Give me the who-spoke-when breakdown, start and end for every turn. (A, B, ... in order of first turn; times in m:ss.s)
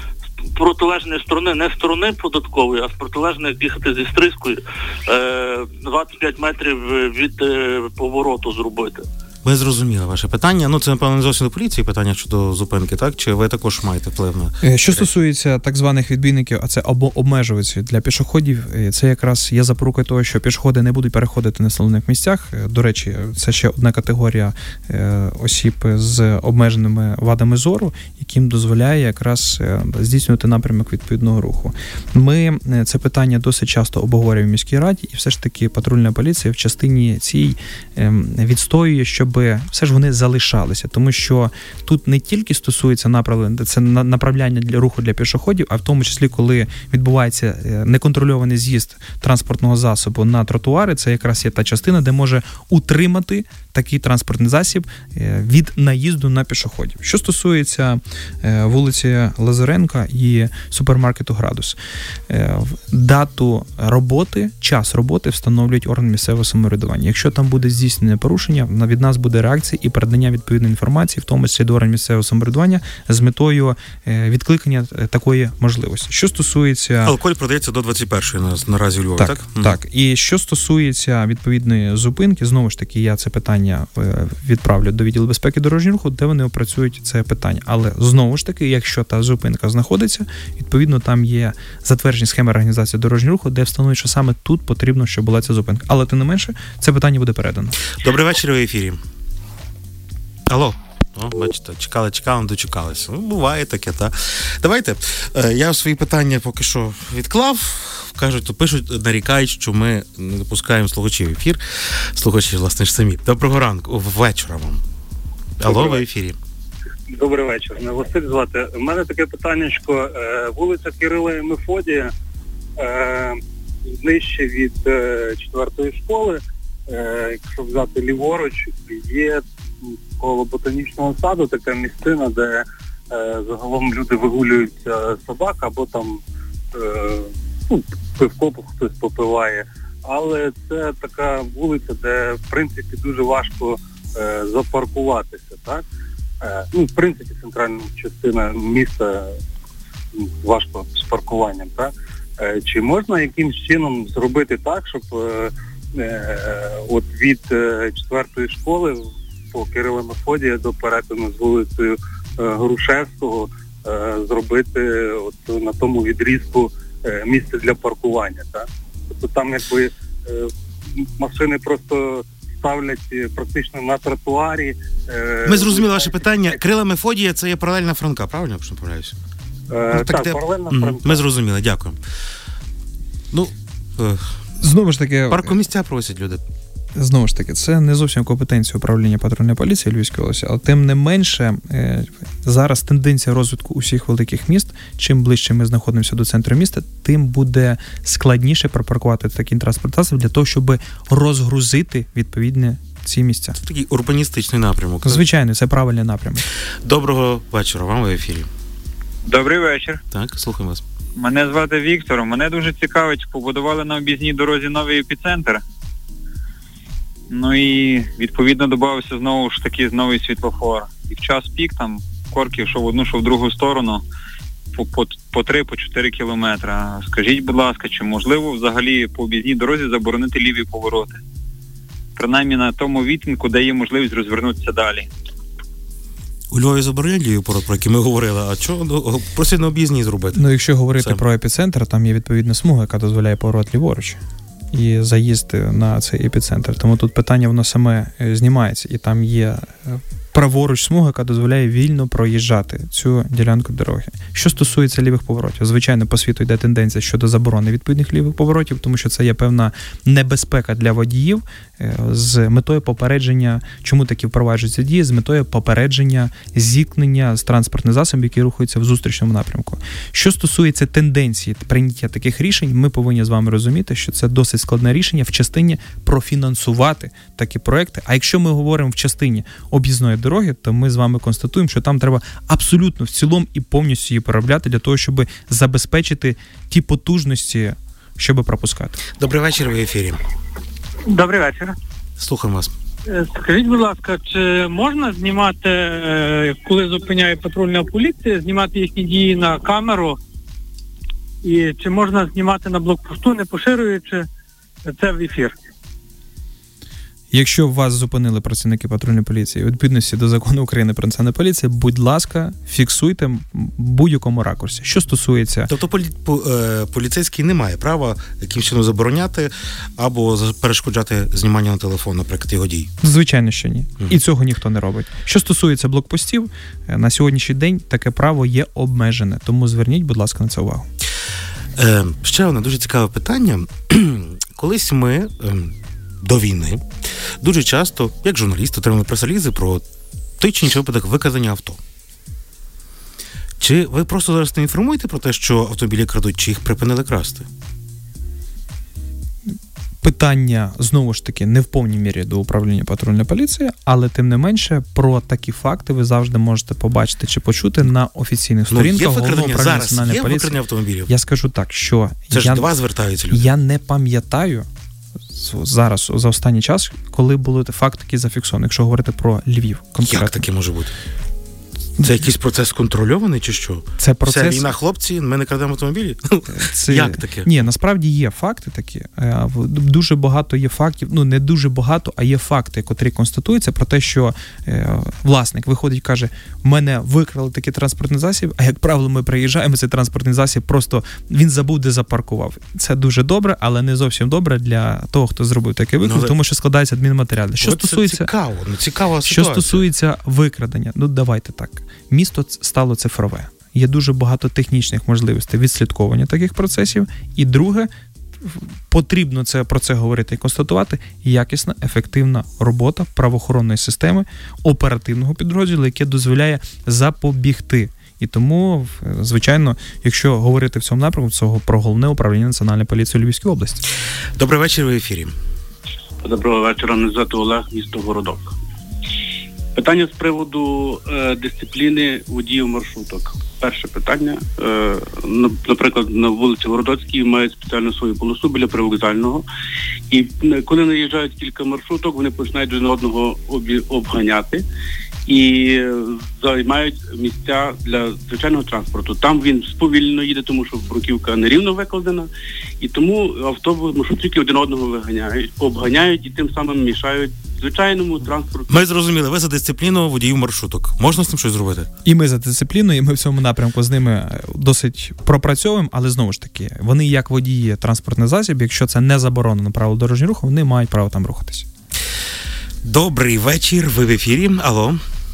0:00.5-0:09.0 A
0:09.4-0:15.1 B
0:14.6-1:01.8 C
1:02.3-1:17.1 C
1:17.0-1:19.8 B
1:19.2-1:37.8 C
1:37.9-1:39.0 B
1:40.5-1:54.8 B
1:55.6-1:56.4 B
1:55.6-1:56.0 D
1:57.1-2:02.1 D
2:02.8-2:09.4 D
2:10.2-2:16.2 D
2:16.7-2:25.8 D
2:26.4-2:29.3 D
2:30.2-2:39.0 D
2:39.5-2:50.5 D
2:51.2-2:56.6 D
2:55.5-2:59.2 B
2:59.7-3:01.3 D
2:59.9-3:02.0 B
3:03.3-3:04.3 B
3:04.6-3:05.6 C
3:05.3-3:06.4 B
3:07.0-3:23.6 C
3:23.6-3:25.3 B
3:25.0-3:26.4 C
3:26.8-3:28.5 B
3:29.2-3:30.0 E
3:30.1-3:30.8 B
3:31.2-3:35.6 E
3:37.3-3:44.0 E
3:44.8-3:51.2 E
3:52.2-3:55.1 E
3:56.5-4:01.2 B
4:00.4-4:04.2 C
4:04.7-4:49.0 C
4:49.2-4:50.2 B
4:51.1-4:51.7 F
4:52.2-4:52.7 B
4:53.1-5:00.2 F
5:01.4-5:04.2 F
5:04.9-5:05.6 F
5:07.3-5:15.7 C
5:15.7-5:22.9 B
5:23.0-5:30.9 C
5:31.8-5:36.9 B
5:37.4-5:39.8 B
5:40.4-5:41.8 B
5:43.6-5:47.5 B
5:50.0-6:00.6 C
5:58.7-6:01.1 B
6:01.1-6:02.7 C
6:02.3-6:03.5 B
6:03.3-6:04.7 C
6:05.3-6:10.4 C
6:10.0-6:10.9 B
6:12.0-6:17.6 B
6:14.0-6:14.7 C
6:16.5-6:38.3 C
6:36.0-6:36.4 B
6:37.6-6:39.8 B
6:39.3-6:47.9 C
6:48.4-7:03.8 C
7:04.4-7:05.3 B
7:06.2-7:08.6 G
7:09.8-7:19.4 G
7:20.1-7:24.6 G
7:25.3-7:32.3 G
7:32.8-7:38.7 G
7:38.7-7:41.9 B
7:42.0-7:51.7 C
7:52.8-7:55.0 B